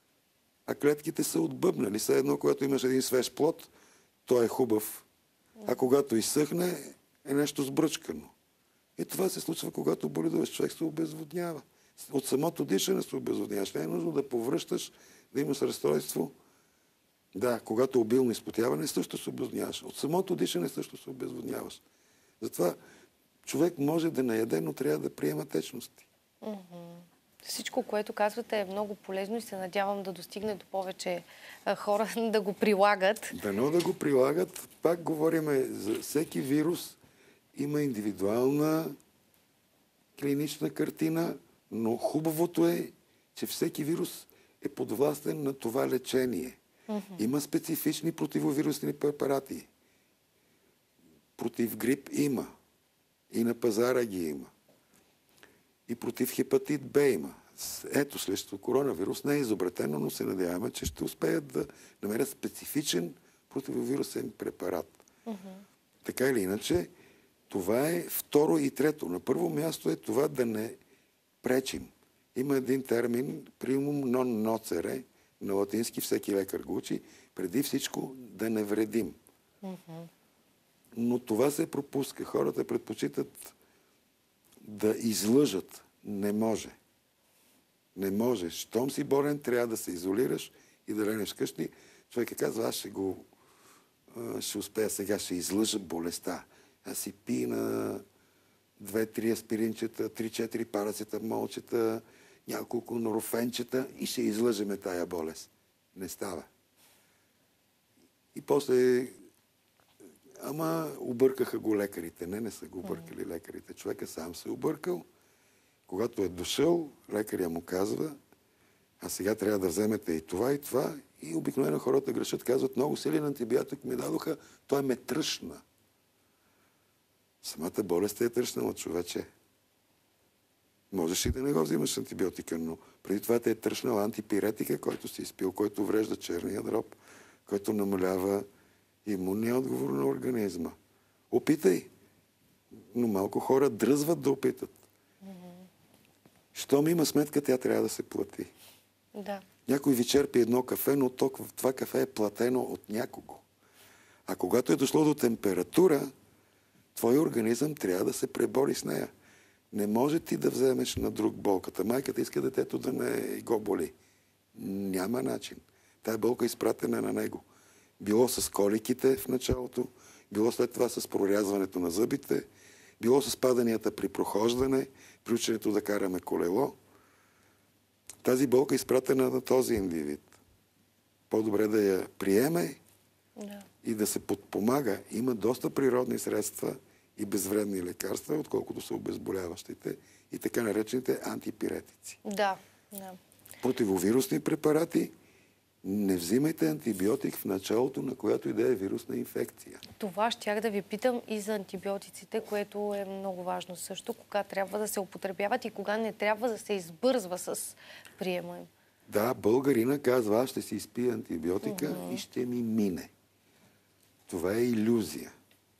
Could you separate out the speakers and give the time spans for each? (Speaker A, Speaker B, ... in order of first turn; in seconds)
Speaker A: 0.7-3.7, 4.3-5.1, 5.7-8.3, 9.0-16.3, 17.3-21.8, 22.4-22.8, 23.4-26.1, 33.3-37.0, 37.5-39.0, 40.2-46.6, 47.2-49.7, 51.4-52.5, 53.3-54.5, 55.9-65.0, 66.0-66.9, 67.5-70.8, 71.4-79.2, 80.9-83.5, 84.6-86.8, 88.0-93.2, 94.1-98.0, 98.8-106.5, 108.3-109.1, 110.4-115.1, 115.9-118.2, 119.0-125.6, 127.4-129.3, 130.9-138.4, 139.1-140.8, 141.3-141.9, 142.9-144.8, 146.5-148.5, 149.7-153.4, 154.3-156.1, 156.9-159.1, 159.7-163.9, 164.5-167.4, 168.0-172.5, 173.0-176.8, 178.2-180.3, 181.3-182.8, 183.8-192.2, 193.6-195.1, 195.8-199.8, 209.1-213.1, 214.3-215.3
Speaker B: 26.4-33.4, 46.9-47.3, 65.3-65.6, 79.6-80.1, 145.2-145.7, 149.2-149.4, 183.4-183.7, 192.2-193.2, 200.0-208.7, 211.6-212.2